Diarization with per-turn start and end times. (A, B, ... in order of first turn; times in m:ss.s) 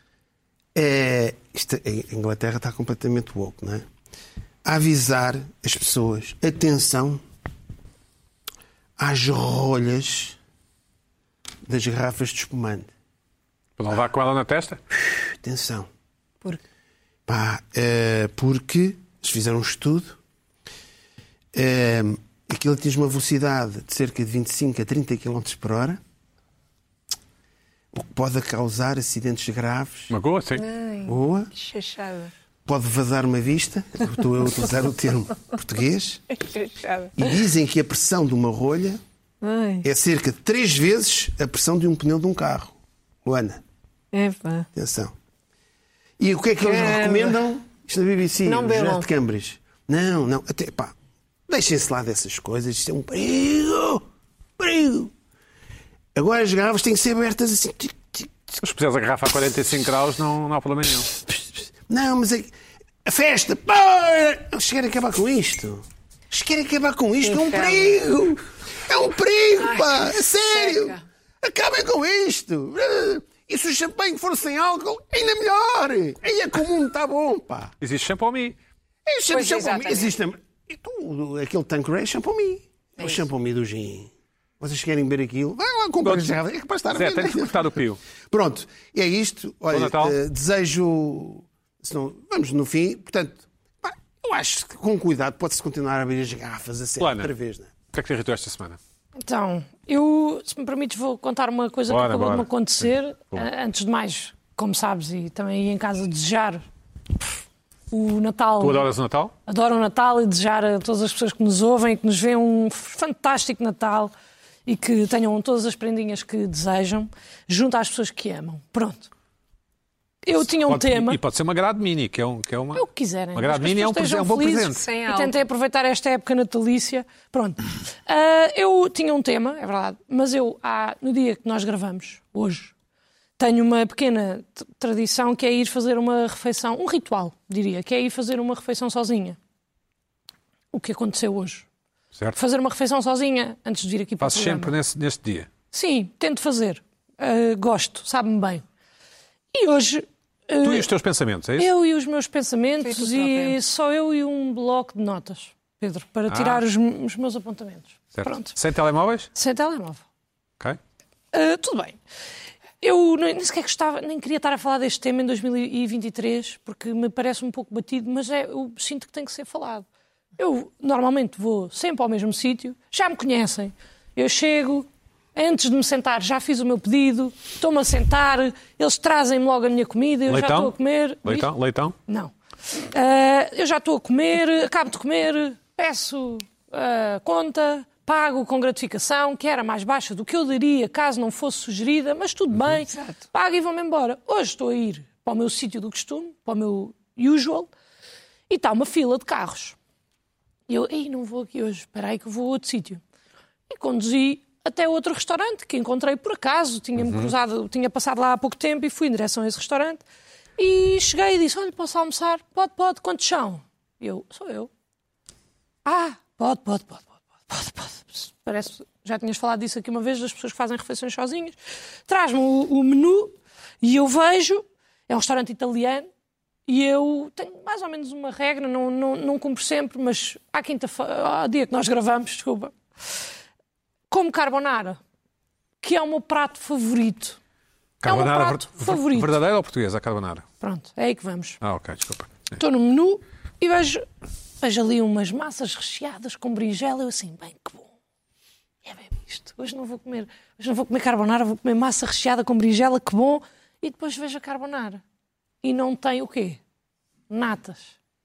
0:00.7-0:03.8 A
0:04.6-0:07.2 A
0:09.0-0:10.4 A
0:11.6-0:12.9 A
0:13.8-0:14.8 B
0:15.0-0:15.9 A
0:17.3-0:20.2 A
0:21.5-0:26.0 A
0:27.9-0:30.1 A
0:30.1-0:30.6 B
0:30.6-0:32.3 C
0:31.0-0:31.5 A
0:32.6-0:36.2 A
0:36.4-0:37.3 C
0:37.2-0:39.0 A
0:39.4-0:39.9 C
0:39.8-0:43.6 A
0:44.1-0:44.7 C
0:44.7-0:45.1 A
0:46.2-0:50.9 A
0:46.6-0:47.4 C
0:48.4-0:49.1 C
0:51.5-0:54.0 A
0:54.6-0:55.1 A
0:56.1-0:58.5 A
0:58.6-1:01.1 B
1:01.3-1:02.5 A
1:03.0-1:17.7 A
1:07.2-1:08.0 C
1:09.6-1:11.0 C
1:17.8-1:18.6 B
1:19.0-1:27.6 A
1:19.3-1:20.2 C
1:26.0-1:26.3 B
1:26.9-1:28.0 B
1:28.3-1:37.7 A
1:29.7-1:30.2 B
1:37.0-1:37.3 B
1:37.9-1:38.8 B
1:39.2-1:46.6 D
1:41.9-1:43.4 B
1:47.9-1:48.9 D
1:48.6-1:49.3 B
1:49.5-1:54.1 D
1:54.6-1:59.1 D
2:00.2-2:01.2 D
2:00.4-2:04.8 B
2:02.7-2:12.7 D
2:04.7-2:05.4 C
2:13.4-2:19.4 D
2:20.7-2:21.6 D
2:22.4-2:24.7 D
2:24.2-2:25.5 B
2:25.7-2:28.6 D
2:29.5-2:30.9 D
2:30.6-2:31.7 B
2:31.6-2:38.5 D
2:32.8-2:33.6 C
2:36.3-2:36.6 B
2:38.1-2:39.3 B
2:39.3-2:40.0 D
2:41.3-2:42.0 D
2:42.8-2:49.8 D
2:50.4-3:01.5 D
3:00.3-3:00.7 B
3:01.2-3:02.0 B
3:02.1-3:17.7 D
3:12.9-3:13.2 C
3:18.5-3:19.8 D
3:20.7-3:23.0 D
3:23.7-3:30.0 D
3:27.0-3:27.3 B
3:30.6-3:34.7 D
3:35.8-3:41.5 D
3:42.1-3:46.1 D
3:46.7-3:52.7 D
3:54.1-3:55.0 D
3:55.8-3:57.4 D
3:58.0-4:00.4 B
3:58.0-3:59.3 D
4:00.6-4:01.6 D
4:01.6-4:02.6 B
4:02.6-4:04.0 D
4:04.6-4:07.9 D
4:08.8-4:15.0 D
4:15.6-4:16.6 D
4:17.3-4:17.9 D